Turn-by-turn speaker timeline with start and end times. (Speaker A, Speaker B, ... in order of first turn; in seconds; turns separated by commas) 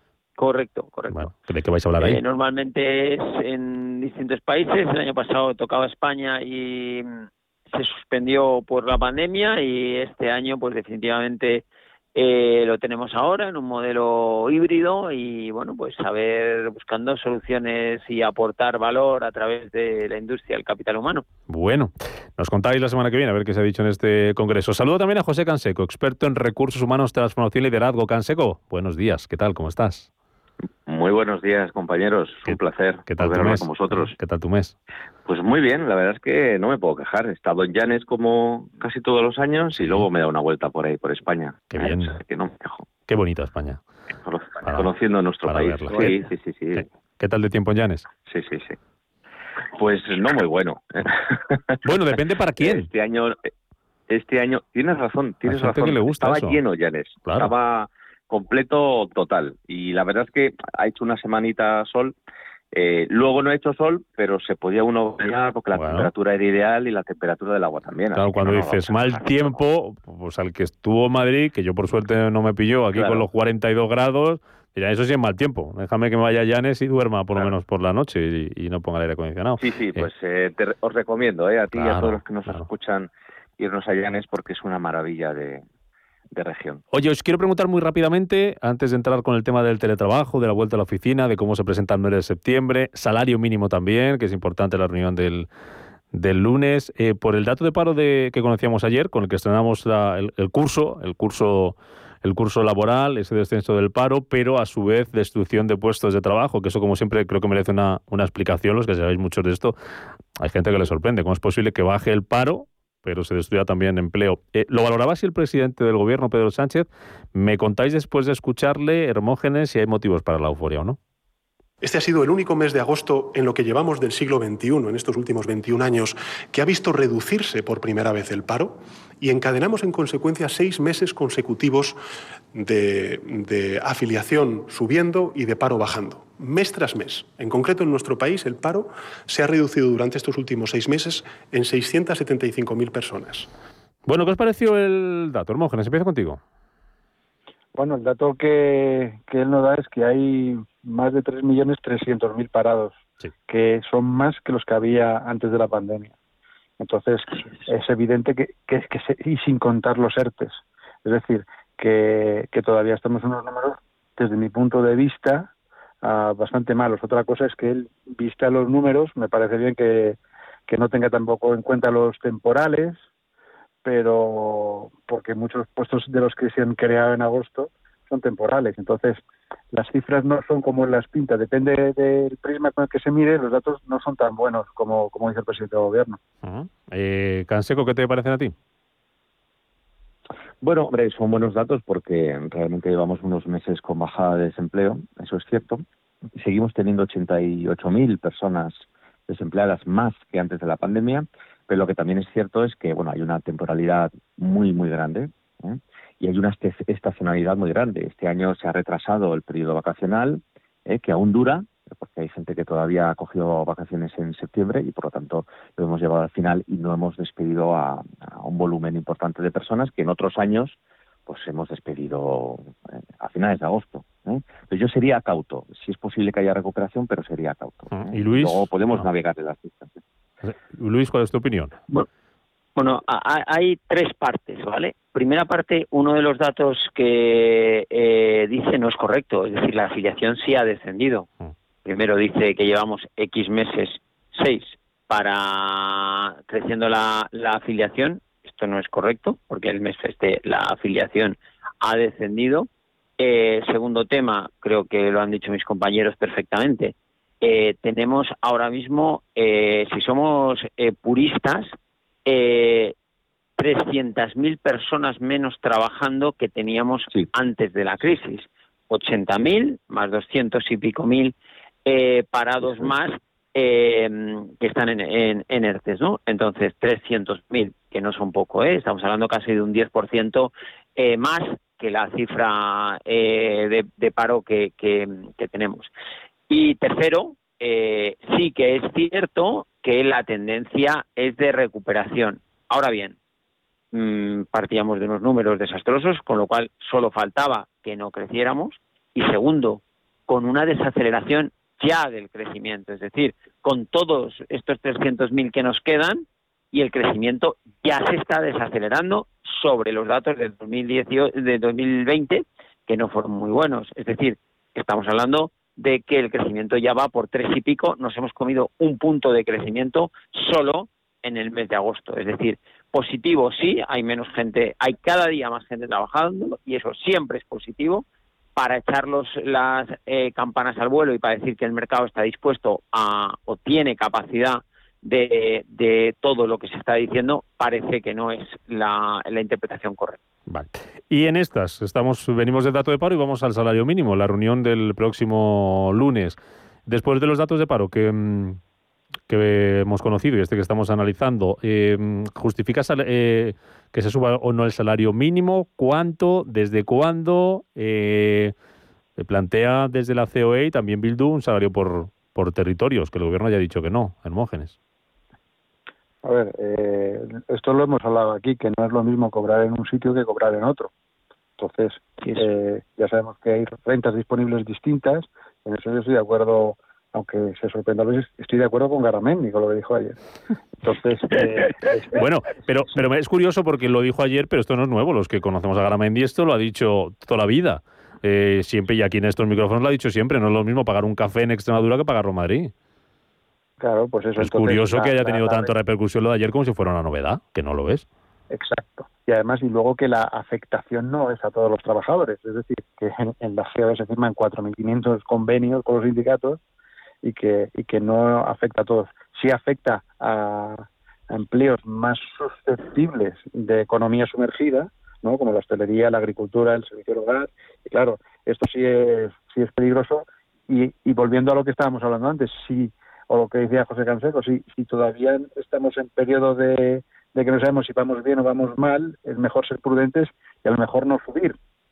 Speaker A: 0.4-1.3, Speaker B: 1.1-2.2, Speaker A: 2.0-11.6, Speaker A: 12.1-21.2, Speaker B: 21.5-30.1, Speaker C: 30.9-34.1, Speaker B: 32.5-34.7, Speaker C: 35.2-42.9, Speaker B: 39.7-40.1, Speaker B: 41.7-42.2, Speaker B: 43.1-43.8, Speaker C: 44.2-46.9, Speaker B: 44.6-44.9, Speaker B: 45.4-46.2, Speaker B: 46.7-48.1, Speaker C: 48.2-48.8, Speaker C: 49.8-51.8, Speaker B: 51.8-52.9, Speaker C: 52.6-53.5, Speaker C: 54.1-62.1, Speaker B: 55.5-56.6, Speaker B: 57.2-57.5, Speaker C: 62.7-69.6, Speaker B: 65.7-66.1, Speaker B: 68.1-80.1, Speaker C: 72.9-73.2, Speaker C: 79.6-85.6, Speaker B: 81.7-82.7, Speaker C: 86.3-86.8, Speaker B: 86.9-95.5, Speaker B: 96.1-109.7, Speaker B: 110.4-121.0, Speaker D: 121.8-132.0, Speaker D: 132.5-143.5, Speaker B: 144.1-146.4, Speaker E: 147.7-156.1, Speaker E: 156.8-173.0, Speaker E: 173.8-179.2, Speaker E: 179.7-186.2, Speaker B: 186.4-188.5, Speaker C: 190.6-195.8, Speaker C: 196.4-230.0, Speaker B: 227.9-229.1, Speaker B: 230.4-231.7, Speaker A: 232.8-241.2, Speaker A: 241.8-252.7, Speaker A: 253.2-261.7, Speaker A: 262.2-262.9, Speaker A: 263.6-271.3, Speaker A: 271.8-285.9, Speaker A: 286.5-293.1, Speaker A: 293.9-328.0, Speaker A: 328.6-340.2, Speaker B: 340.5-348.6, Speaker B: 349.3-358.5, Speaker B: 359.2-364.8, Speaker E: 366.2-370.9, Speaker E: 371.6-380.2, Speaker E: 380.8-382.1, Speaker B: 382.1-392.7, Speaker E: 393.8-395.7, Speaker B: 394.4-398.0, Speaker E: 398.5-406.6, Speaker E: 407.2-431.6